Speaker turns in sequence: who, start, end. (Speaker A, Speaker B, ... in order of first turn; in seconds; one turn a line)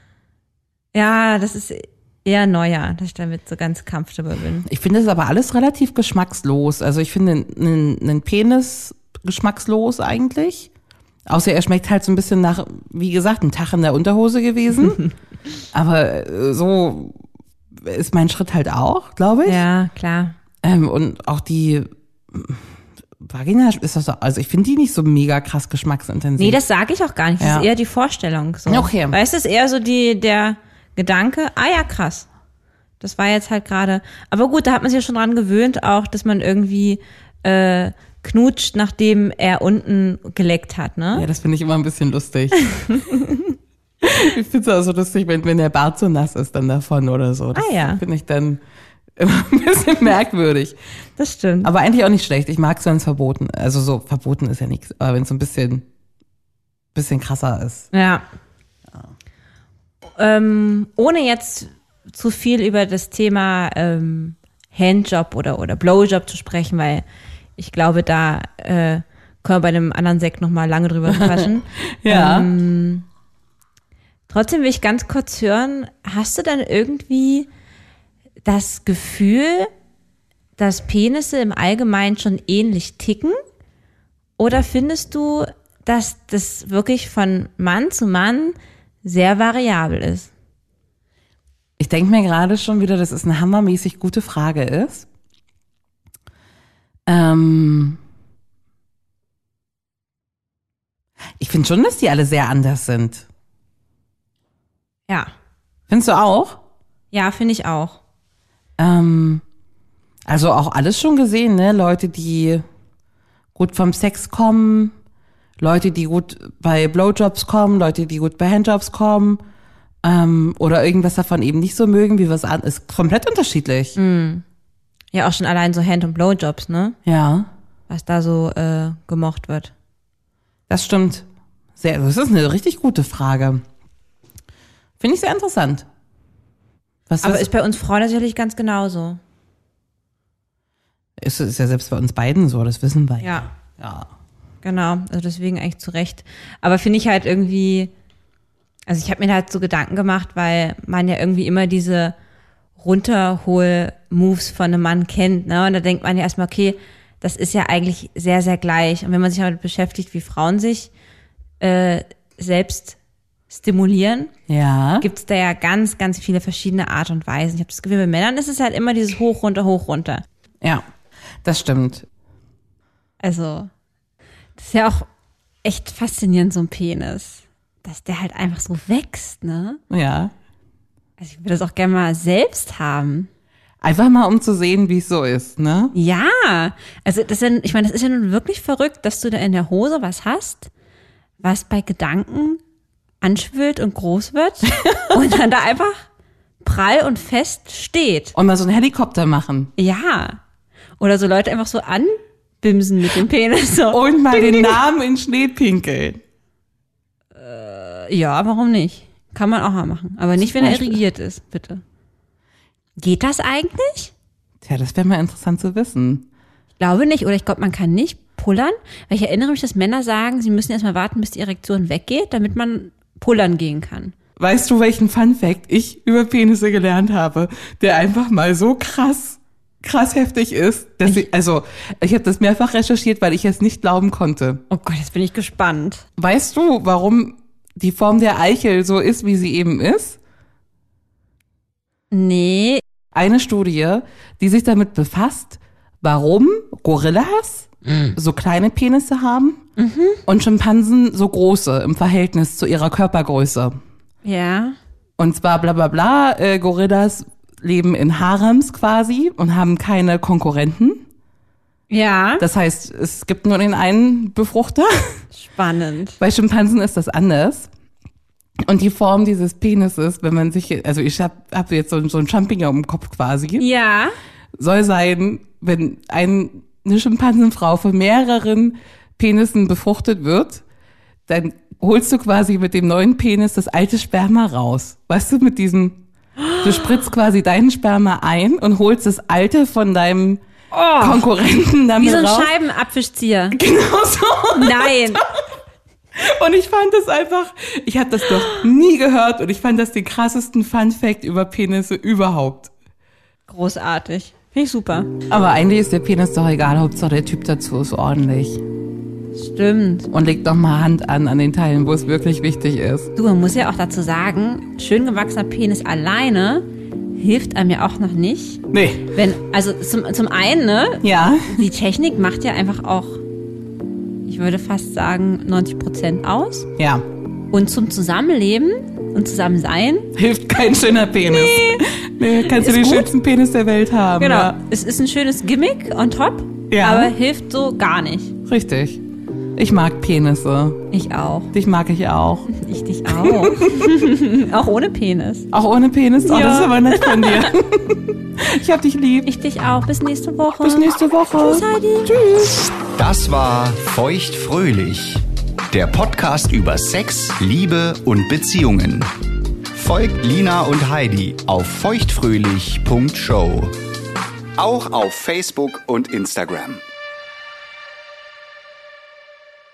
Speaker A: 0.9-4.7
Speaker B: 4.6-10.7
Speaker B: 11.3-15.0
Speaker B: 15.7-17.2
Speaker B: 17.8-19.6
Speaker A: 19.4-20.4
Speaker B: 20.6-26.6
Speaker A: 26.4-32.3
Speaker B: 27.4-27.7
Speaker B: 28.7-29.2
Speaker A: 33.0-41.3
Speaker B: 41.1-42.7
Speaker A: 42.7-43.5
Speaker B: 44.0-48.6
Speaker A: 47.5-48.0
Speaker B: 49.2-50.8
Speaker A: 51.2-51.7
Speaker B: 51.6-55.9
Speaker B: 56.9-57.9
Speaker A: 57.9-58.2
Speaker A: 60.2-67.0
Speaker A: 67.6-73.1
Speaker B: 71.1-72.5
Speaker A: 74.3-77.5
Speaker A: 78.4-79.7
Speaker A: 80.6-83.4
Speaker A: 84.4-90.3
Speaker B: 91.8-95.1
Speaker B: 97.1-98.0
Speaker B: 101.4-103.3
Speaker B: 105.9-106.6
Speaker A: 107.1-108.0
Speaker B: 108.8-109.4
Speaker B: 110.3-112.7
Speaker B: 113.6-115.0
Speaker B: 115.6-119.4
Speaker B: 120.0-124.0
Speaker A: 124.0-124.4
Speaker A: 125.1-127.0
Speaker B: 127.0-127.5
Speaker A: 127.9-129.7
Speaker B: 130.7-131.2
Speaker B: 131.8-133.6
Speaker B: 135.0-135.9
Speaker B: 137.1-137.5
Speaker A: 137.2-139.2
Speaker B: 141.2-144.1
Speaker A: 143.2-143.5
Speaker A: 144.6-147.9
Speaker A: 148.9-152.2
Speaker A: 152.8-160.9
Speaker A: 161.6-163.0
Speaker A: 163.5-164.3
Speaker B: 164.5-165.1
Speaker A: 165.0-170.2
Speaker B: 170.6-170.9
Speaker B: 171.4-172.1
Speaker A: 173.2-173.7
Speaker A: 174.6-175.1
Speaker A: 175.6-179.8
Speaker B: 179.9-180.3
Speaker A: 181.2-183.3
Speaker B: 183.8-185.9
Speaker A: 185.9-190.7
Speaker A: 191.4-192.6
Speaker A: 193.2-196.1
Speaker A: 196.6-198.3
Speaker B: 198.3-199.7
Speaker A: 199.8-200.4
Speaker A: 201.0-204.8
Speaker B: 203.9-206.2
Speaker A: 207.3-211.8
Speaker B: 210.4-211.0
Speaker A: 213.0-214.1
Speaker B: 214.6-216.2
Speaker A: 216.8-224.1
Speaker B: 224.4-234.6
Speaker A: 234.7-236.0
Speaker B: 236.2-240.2
Speaker A: 242.1-242.8
Speaker B: 243.1-249.7
Speaker A: 249.8-250.2
Speaker B: 250.3-253.8
Speaker A: 254.2-254.8
Speaker B: 255.2-261.1
Speaker A: 261.9-262.4
Speaker B: 262.4-265.2
Speaker A: 265.3-266.2
Speaker B: 266.2-267.7
Speaker B: 268.6-273.7
Speaker A: 273.6-274.1
Speaker B: 274.6-280.6
Speaker B: 281.3-286.0
Speaker A: 286.5-286.7
Speaker B: 286.6-290.4
Speaker A: 290.7-291.2
Speaker B: 291.0-292.5
Speaker A: 292.0-293.6
Speaker B: 293.5-295.3
Speaker A: 294.5-295.2
Speaker B: 296.1-302.7
Speaker A: 303.5-305.1
Speaker B: 305.3-308.6
Speaker A: 309.4-310.1
Speaker B: 310.1-313.1
Speaker A: 313.2-323.2
Speaker B: 318.7-319.1
Speaker B: 321.0-321.6
Speaker A: 324.2-326.7
Speaker B: 326.8-327.1
Speaker A: 327.5-330.1
Speaker B: 330.1-334.6
Speaker A: 331.3-333.1
Speaker A: 334.2-338.4
Speaker B: 336.7-337.1
Speaker B: 338.5-339.0
Speaker B: 339.6-340.9
Speaker A: 340.9-341.5
Speaker B: 341.5-342.5
Speaker A: 342.5-345.5
Speaker B: 343.1-344.1
Speaker B: 345.5-349.3
Speaker A: 346.2-347.5
Speaker A: 349.2-352.1
Speaker B: 350.6-352.6
Speaker C: 352.8-359.1
Speaker C: 359.7-363.8
Speaker C: 364.6-366.8